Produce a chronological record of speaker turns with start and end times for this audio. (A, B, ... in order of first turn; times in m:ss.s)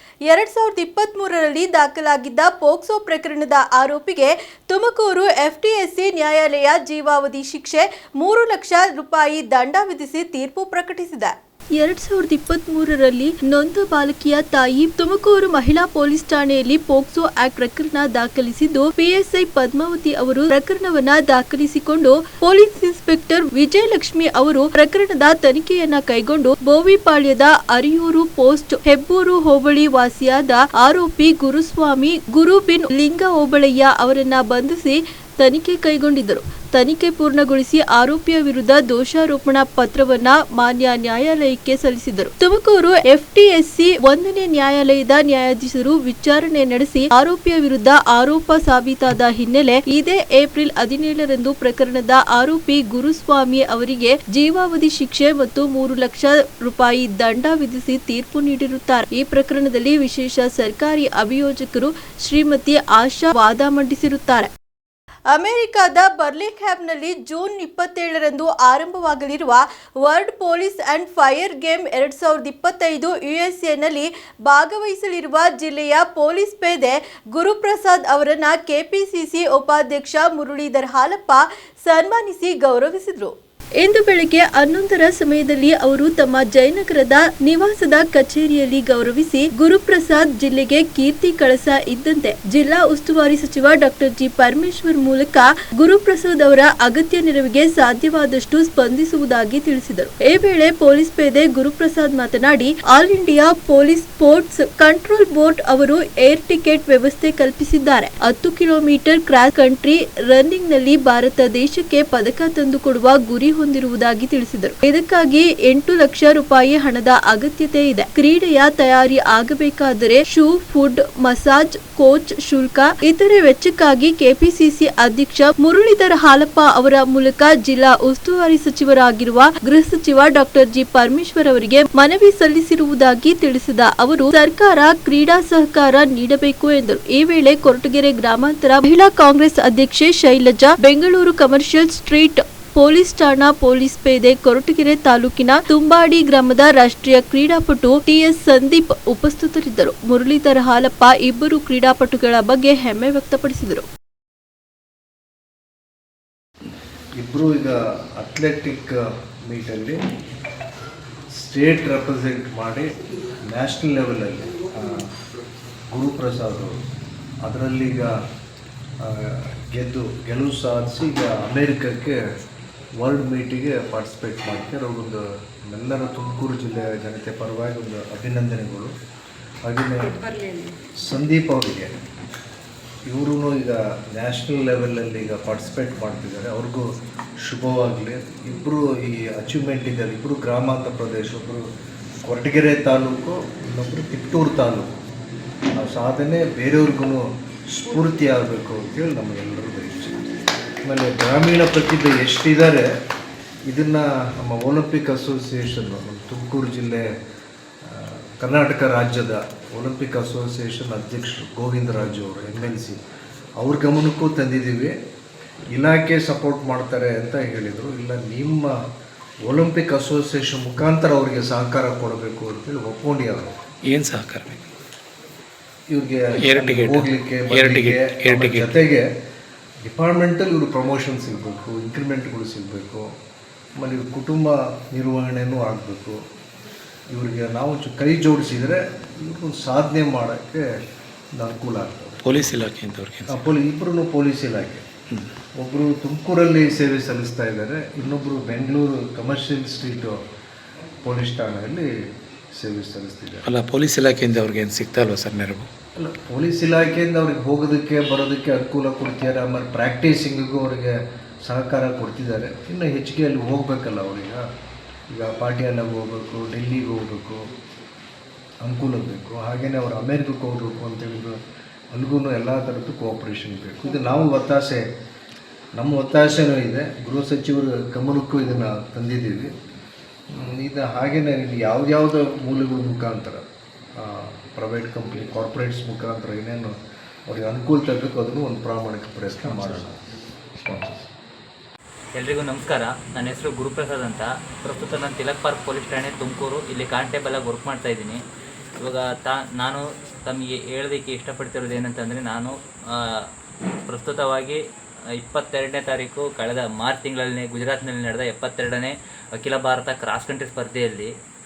0:00.3-1:04.5 A
1:05.3-2:33.8 A
2:37.2-2:40.0 B
2:41.4-2:42.9 B
2:43.5-2:45.1 B
2:45.9-2:46.8 B
2:47.4-2:48.1 B
2:49.0-2:52.2 B
2:53.0-2:58.9 B
2:59.6-3:00.2 B
3:01.0-3:01.9 B
3:03.1-3:06.9 B
3:07.4-3:11.6 B
3:12.2-3:14.9 B
3:15.8-3:20.2 B
3:20.8-3:22.9 B
3:23.7-3:27.0 B
3:27.8-3:33.0 B
3:33.6-3:34.9 B
3:35.7-3:38.8 B
3:39.4-3:43.5 B
3:43.9-3:44.6 C
3:45.9-3:49.0 B
3:46.4-3:48.7 C
3:49.8-3:53.1 B
3:53.8-3:56.2 B
3:57.1-4:00.6 B
4:01.4-4:02.2 B
4:02.2-4:03.5 C
4:03.3-4:04.8 B
4:05.6-4:10.2 B
4:11.0-4:11.9 B
4:12.5-4:13.4 B
4:13.4-4:15.7 C
4:16.0-4:24.4 B
4:25.1-4:27.4 B
4:28.6-4:31.4 B
4:31.9-4:34.9 B
4:35.8-4:39.5 B
4:40.3-4:43.4 B
4:44.0-4:46.7 B
4:47.3-4:50.0 B
4:49.4-4:49.8 C
4:52.1-4:58.2 D
4:58.8-5:03.3 D
5:03.9-5:04.6 D
5:05.2-5:11.1 D